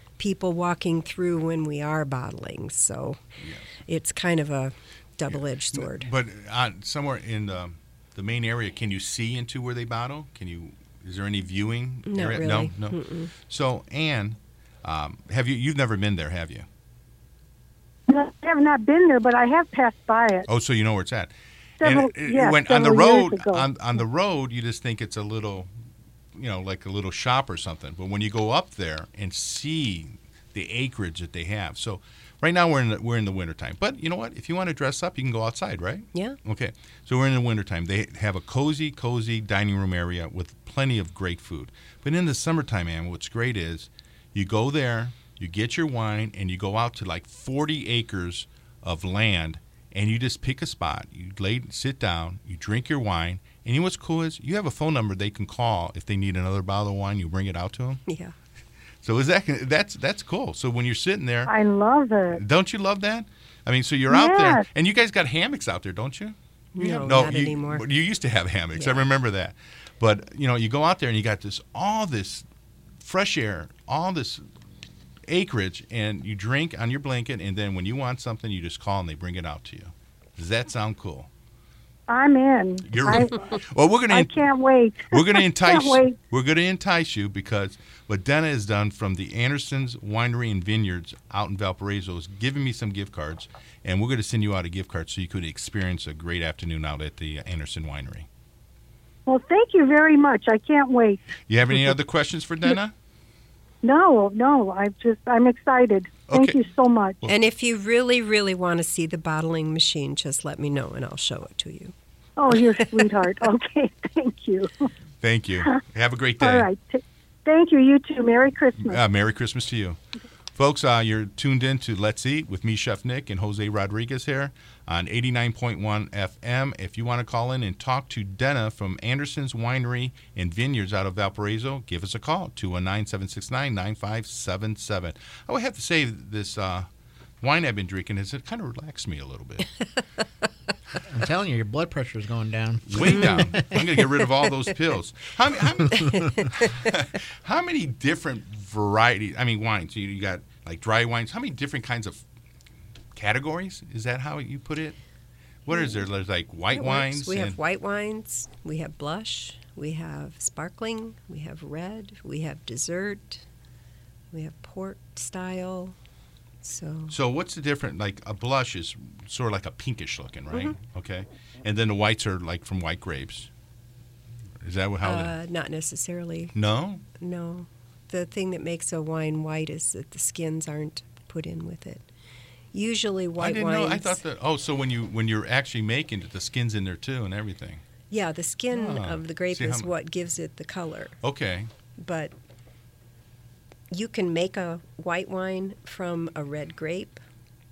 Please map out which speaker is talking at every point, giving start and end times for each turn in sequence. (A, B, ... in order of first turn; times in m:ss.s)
0:00.2-0:03.2 A
0:03.4-0:03.6 B
0:03.9-0:06.1 A
0:05.7-0:16.7 B
0:12.1-0:13.3 A
0:18.1-0:20.5 C
0:20.5-0:21.3 B
0:21.8-0:23.7 C
0:21.8-0:25.7 B
0:26.4-0:58.0 B
0:58.1-0:58.3 A
0:59.0-1:01.5 B
1:01.5-1:02.4 C
1:02.3-1:12.4 B
1:04.1-1:04.7 C
1:06.8-1:07.8 A
1:08.8-1:09.0 A
1:13.0-1:14.4 B
1:15.3-1:21.3 B
1:22.1-1:23.5 C
1:22.8-1:24.5 B
1:24.1-1:26.2 C
1:25.1-1:38.3 B
1:39.3-1:41.2 C
1:41.5-1:42.9 B
1:43.8-1:47.2 C
1:46.3-1:46.6 B
1:47.3-1:51.9 A
1:52.4-1:54.9 C
1:55.2-1:56.7 B
1:56.4-1:59.0 C
1:58.8-2:00.0 B
2:00.6-2:16.9 B
2:17.4-2:19.7 B
2:21.1-2:23.8 D
2:22.9-2:32.2 B
2:23.2-2:23.5 A
2:25.9-2:26.3 D
2:26.2-2:26.7 A
2:33.2-2:35.0 B
2:35.7-2:37.6 B
2:35.7-2:36.0 A
2:36.7-2:43.4 A
2:44.3-2:46.0 A
2:46.6-2:47.2 A
2:47.1-2:53.5 B
2:54.6-2:55.3 B
2:55.0-2:56.6 A
2:56.6-2:57.0 B
2:57.2-3:02.0 A
3:02.7-3:04.2 A
3:03.4-3:07.8 B
3:08.1-3:11.2 A
3:08.7-3:09.9 B
3:11.2-3:11.7 B
3:12.0-3:12.3 A
3:13.9-3:17.2 A